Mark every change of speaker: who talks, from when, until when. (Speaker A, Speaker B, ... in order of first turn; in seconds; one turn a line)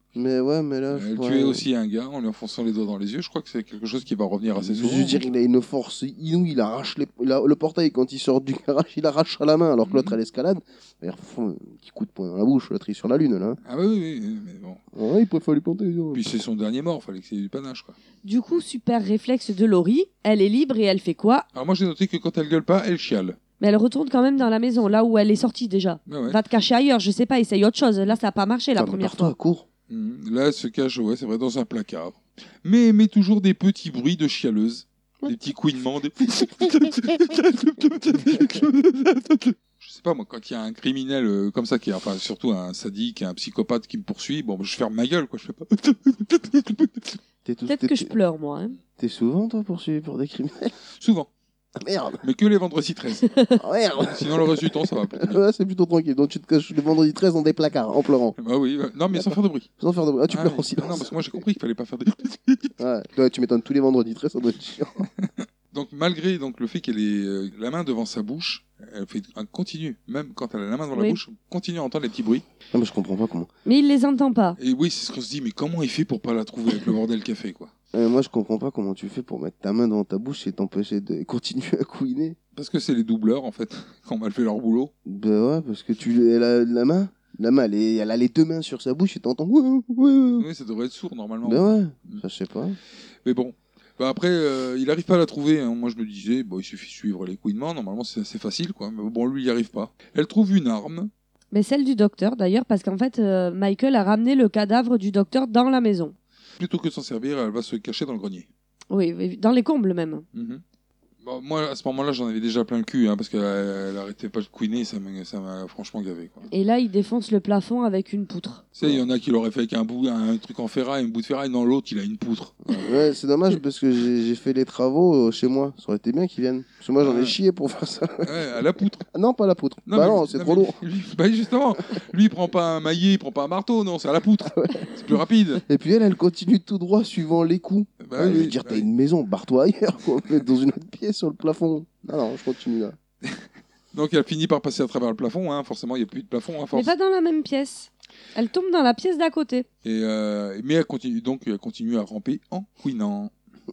Speaker A: 0.1-1.6
Speaker B: 0.9-5.2
Speaker A: 4.5-13.6
Speaker B: 9.8-10.1
Speaker B: 13.6-14.8
Speaker A: 14.9-16.2
Speaker B: 16.1-17.9
Speaker C: 18.2-21.4
Speaker B: 21.5-23.4
Speaker C: 23.6-29.3
Speaker B: 26.1-26.4
Speaker A: 28.8-29.6
Speaker B: 29.9-47.2
Speaker A: 36.4-36.9
Speaker A: 38.3-38.6
Speaker A: 47.4-48.1
Speaker C: 47.7-48.8
Speaker A: 49.0-50.7
Speaker B: 51.0-51.3
Speaker A: 51.8-52.2
Speaker B: 52.2-53.3
Speaker A: 53.6-58.4
Speaker B: 54.1-55.4
Speaker B: 58.4-59.7
Speaker A: 59.1-61.4
Speaker B: 60.3-62.7
Speaker A: 62.8-65.1
Speaker B: 65.2-72.4
Speaker C: 70.9-71.2
Speaker A: 72.7-73.5
Speaker C: 73.7-74.6
Speaker B: 74.6-77.7
Speaker A: 77.9-82.4
Speaker B: 82.5-84.9
Speaker A: 85.0-90.5
Speaker B: 90.4-92.2
Speaker A: 91.4-92.8
Speaker B: 93.2-101.1
Speaker C: 101.5-106.1
Speaker B: 106.6-108.5
Speaker C: 108.9-110.2
Speaker B: 110.3-110.6
Speaker B: 111.2-116.5
Speaker C: 116.5-118.6
Speaker B: 118.7-122.9
Speaker A: 122.7-128.3
Speaker B: 127.0-127.3
Speaker B: 128.2-129.1
Speaker A: 129.1-130.8
Speaker B: 129.9-135.6
Speaker A: 134.4-143.0
Speaker B: 138.0-138.8
Speaker B: 143.2-146.9
Speaker C: 146.7-149.7
Speaker B: 149.8-153.3